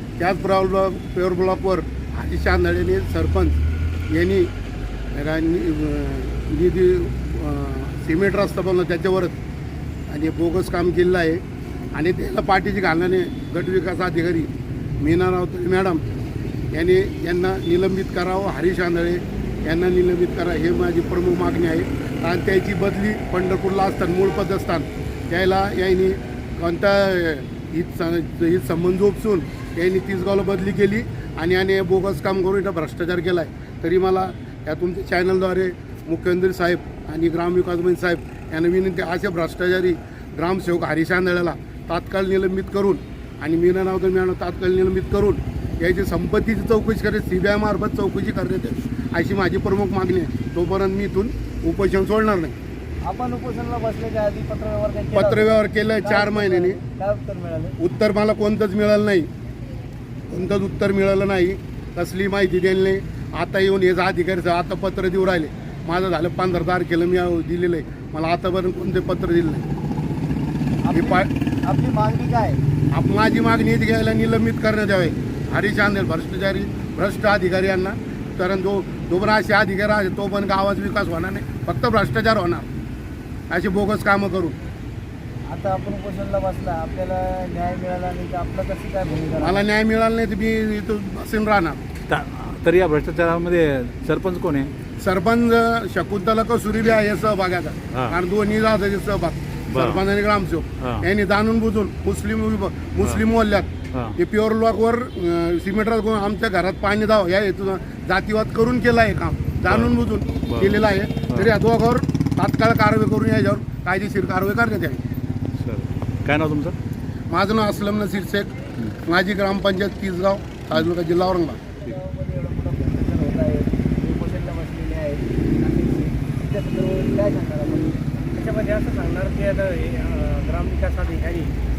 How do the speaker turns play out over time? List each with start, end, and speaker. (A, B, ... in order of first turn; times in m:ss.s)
0:00.2-0:03.6 A
0:04.1-0:04.5 A
0:05.1-0:09.4 A
0:10.1-0:11.4 A
0:11.9-0:14.5 A
0:15.0-0:16.0 A
0:16.7-0:52.5 A
0:53.0-0:57.8 B
0:55.1-0:56.8 A
0:57.8-0:59.3 A
1:00.3-1:09.6 A
1:10.8-1:12.6 B
1:10.9-1:11.3 A
1:12.9-1:22.7 A
1:23.5-1:24.6 A
1:25.5-1:29.6 B
1:29.4-1:31.8 A
1:32.1-1:34.7 C
1:35.0-1:55.0 A
1:39.7-1:40.0 C
1:49.7-1:51.5 C
1:55.6-1:56.8 C
1:57.3-1:58.5 A
1:59.0-2:01.6 A
2:01.8-2:08.2 B
2:08.3-2:11.5 D